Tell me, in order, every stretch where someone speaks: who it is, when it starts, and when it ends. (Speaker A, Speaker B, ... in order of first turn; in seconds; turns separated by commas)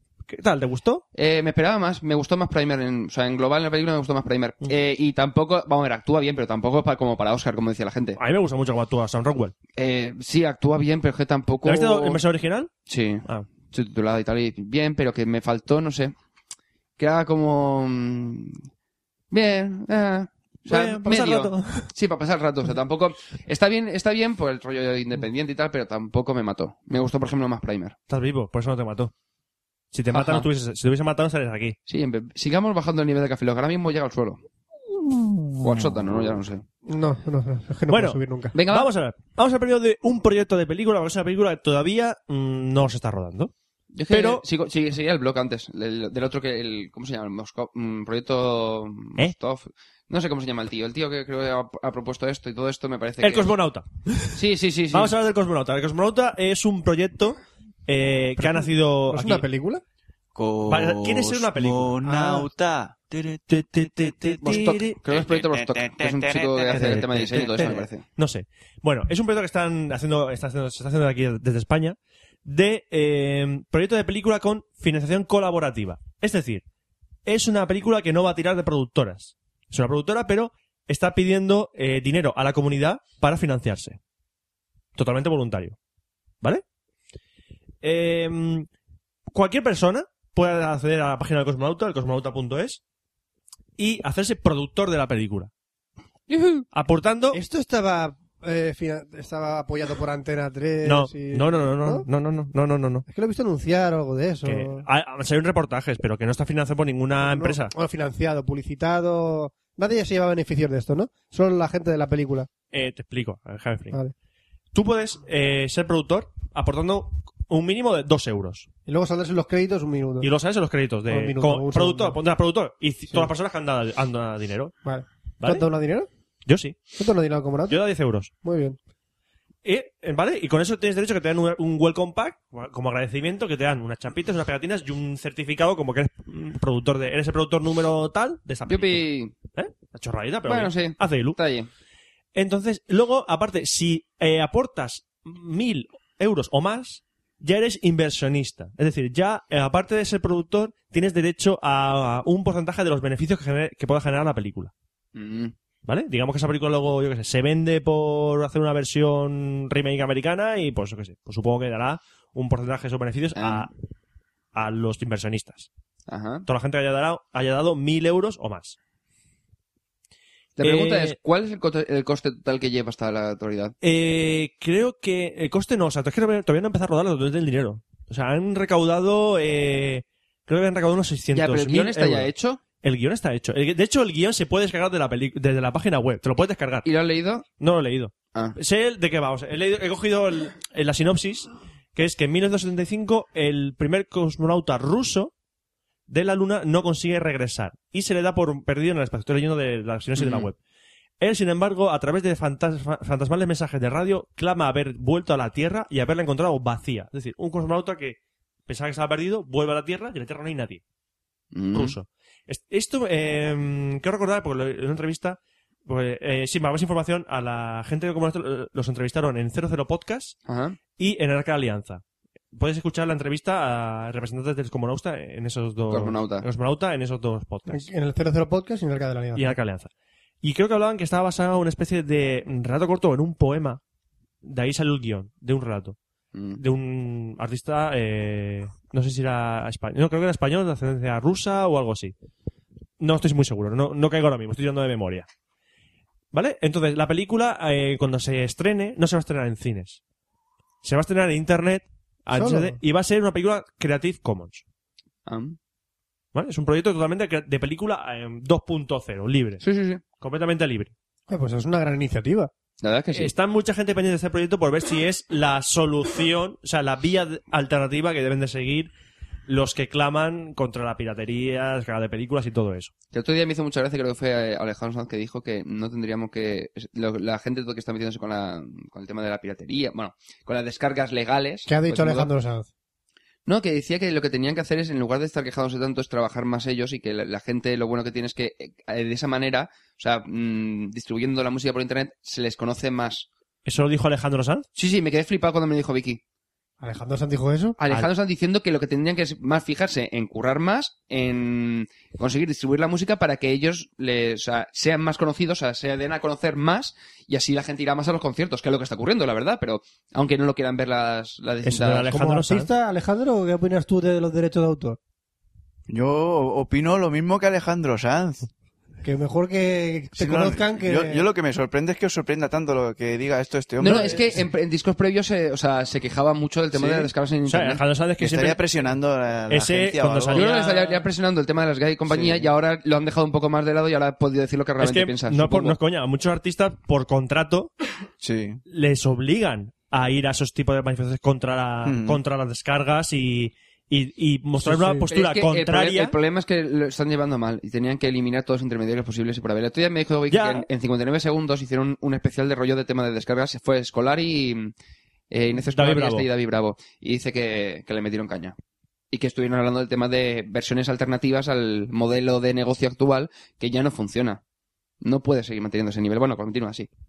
Speaker A: 0.3-1.0, Speaker B: 1.1-8.2, Speaker A: 8.2-9.5, Speaker B: 9.8-12.2, Speaker A: 11.6-12.7, Speaker B: 12.9-16.1, Speaker B: 17.0-18.6, Speaker B: 19.3-27.9, Speaker A: 20.7-21.9, Speaker A: 28.1-29.1, Speaker A: 29.9-31.8, Speaker B: 30.1-30.5, Speaker B: 31.9-34.4, Speaker A: 35.5-35.7, Speaker B: 35.6-36.6, Speaker C: 36.9-38.5, Speaker A: 37.9-43.5, Speaker B: 38.5-38.9, Speaker B: 43.9-53.5, Speaker A: 44.1-44.4, Speaker A: 53.2-54.4, Speaker B: 54.3-55.1, Speaker A: 54.9-59.4, Speaker C: 58.4-59.8, Speaker D: 60.3-67.7, Speaker A: 60.7-62.0, Speaker C: 62.0-62.5, Speaker A: 63.5-65.0, Speaker B: 64.4-68.0, Speaker A: 66.7-76.6, Speaker A: 77.2-84.0, Speaker A: 85.0-85.8, Speaker A: 87.8-88.7, Speaker A: 89.3-92.8, Speaker A: 93.8-95.5, Speaker B: 96.3-96.6, Speaker A: 96.7-97.4, Speaker C: 97.3-102.1, Speaker A: 100.8-103.0, Speaker C: 103.1-104.8, Speaker A: 104.4-107.7, Speaker C: 107.2-112.5, Speaker A: 112.7-114.0, Speaker A: 114.7-118.7, Speaker C: 118.8-120.3, Speaker A: 120.2-124.7, Speaker C: 121.1-122.2, Speaker C: 124.8-126.1, Speaker A: 125.4-125.7, Speaker A: 126.5-126.8, Speaker C: 127.0-127.8, Speaker A: 127.7-128.3, Speaker C: 128.4-128.8, Speaker A: 129.6-141.4, Speaker B: 138.7-139.3, Speaker B: 140.4-141.7, Speaker A: 142.3-154.7, Speaker B: 155.1-155.5, Speaker A: 155.8-163.7, Speaker B: 163.3-163.7, Speaker A: 164.5-165.7, Speaker B: 166.1-166.4, Speaker A: 166.5-168.8, Speaker B: 170.6-173.7, Speaker A: 170.6-171.2, Speaker A: 173.8-182.3, Speaker B: 181.3-182.6, Speaker A: 182.8-186.9, Speaker B: 186.8-187.4, Speaker A: 187.6-195.3, Speaker A: 196.1-200.6, Speaker B: 200.2-200.5, Speaker A: 201.2-210.8, Speaker B: 211.5-211.9, Speaker A: 211.7-220.4, Speaker B: 220.5-220.8, Speaker A: 220.9-222.0, Speaker A: 222.5-227.9, Speaker B: 225.9-226.4, Speaker C: 227.7-229.6, Speaker A: 229.3-229.9, Speaker A: 230.4-233.8, Speaker A: 234.4-235.9, Speaker B: 236.3-236.6, Speaker A: 236.6-242.1, Speaker A: 243.0-245.3, Speaker A: 246.3-250.0, Speaker A: 250.8-254.6, Speaker C: 252.3-252.8, Speaker B: 255.2-255.6, Speaker A: 256.3-259.6, Speaker B: 259.6-260.0, Speaker A: 260.2-260.9, Speaker C: 261.3-262.5, Speaker B: 262.8-263.3, Speaker A: 263.1-268.9, Speaker A: 269.5-272.9, Speaker B: 273.1-282.3, Speaker C: 281.7-282.7, Speaker B: 283.4-293.3, Speaker A: 293.6-294.6, Speaker B: 294.7-296.2, Speaker C: 296.8-297.8, Speaker B: 297.8-312.1, Speaker A: 311.6-312.7, Speaker C: 312.1-315.0, Speaker D: 315.9-318.5, Speaker C: 319.0-321.2, Speaker D: 320.2-324.4, Speaker B: 323.8-327.8, Speaker A: 326.7-328.6, Speaker D: 328.2-330.4, Speaker A: 329.5-331.0, Speaker B: 330.3-335.8, Speaker D: 332.1-332.4, Speaker A: 334.8-337.7, Speaker D: 338.2-338.6, Speaker A: 338.7-346.1, Speaker D: 341.8-342.2, Speaker C: 344.6-345.1, Speaker B: 345.1-354.7, Speaker A: 350.3-350.7, Speaker B: 355.3-358.5, Speaker A: 355.7-356.3, Speaker B: 359.1-364.4, Speaker B: 365.0-366.9